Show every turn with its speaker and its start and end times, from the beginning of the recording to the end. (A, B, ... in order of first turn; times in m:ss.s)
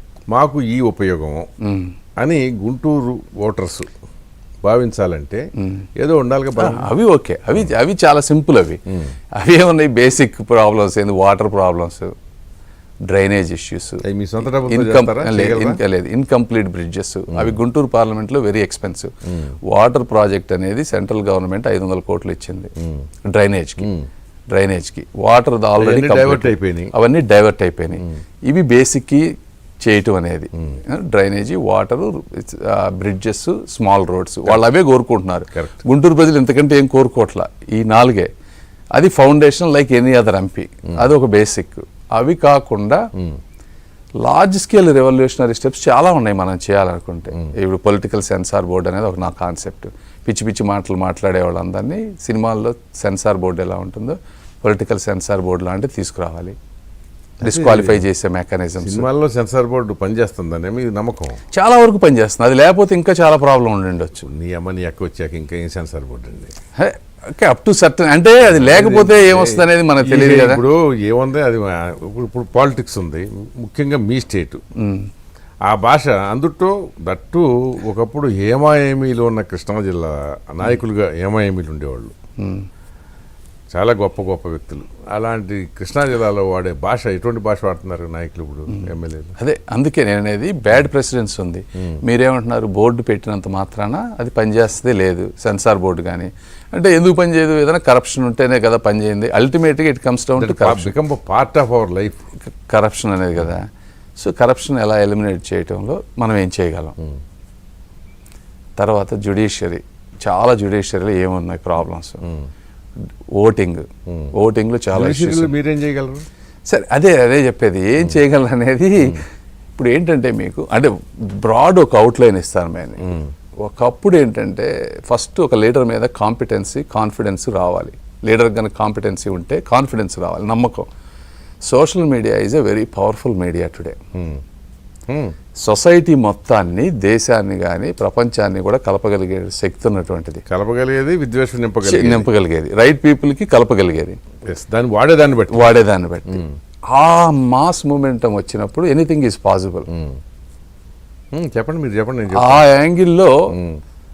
0:00.3-0:01.5 A
0:01.6-0:02.0 B
0:02.2-0:03.9 A
0:04.6-0:05.5 A
0:05.6-0:05.8 B
0:06.0-0:06.9 A
0:06.6-0:08.8 B
0:09.4-0:12.1 B
0:13.1-0:14.0 B
0:14.0-0:15.8 A
0:14.6-0:19.1 B
0:17.3-0:17.6 A
0:19.6-0:22.7 B
0:23.3-0:23.9 B
0:24.5-0:29.3 B
0:25.8-0:26.9 A
0:29.8-0:38.3 B
0:38.9-0:43.0 B
0:44.2-0:56.6 B
0:57.4-0:58.0 A
0:57.4-0:59.1 B
0:58.8-1:01.4 A
1:01.5-1:04.3 B
1:04.2-1:06.5 A
1:06.8-1:10.6 B
1:08.4-1:14.6 A
1:14.8-1:15.1 B
1:15.6-1:22.1 A
1:22.4-1:22.7 B
1:23.7-1:29.4 A
1:28.7-1:40.9 B
1:40.4-1:42.2 A
1:42.4-1:46.9 B
1:48.8-1:52.2 B
1:53.4-1:55.5 B
1:54.9-1:56.2 A
1:56.7-1:59.2 B
1:59.8-2:10.9 B
2:11.6-2:14.0 B
2:14.2-2:14.4 A
2:15.1-2:15.3 A
2:15.6-2:20.4 B
2:20.5-2:22.3 A
2:21.8-2:24.2 B
2:24.5-2:25.7 A
2:25.5-2:29.9 B
2:29.9-2:30.2 A
2:31.3-2:32.7 A
2:32.3-2:33.4 B
2:33.5-2:33.8 A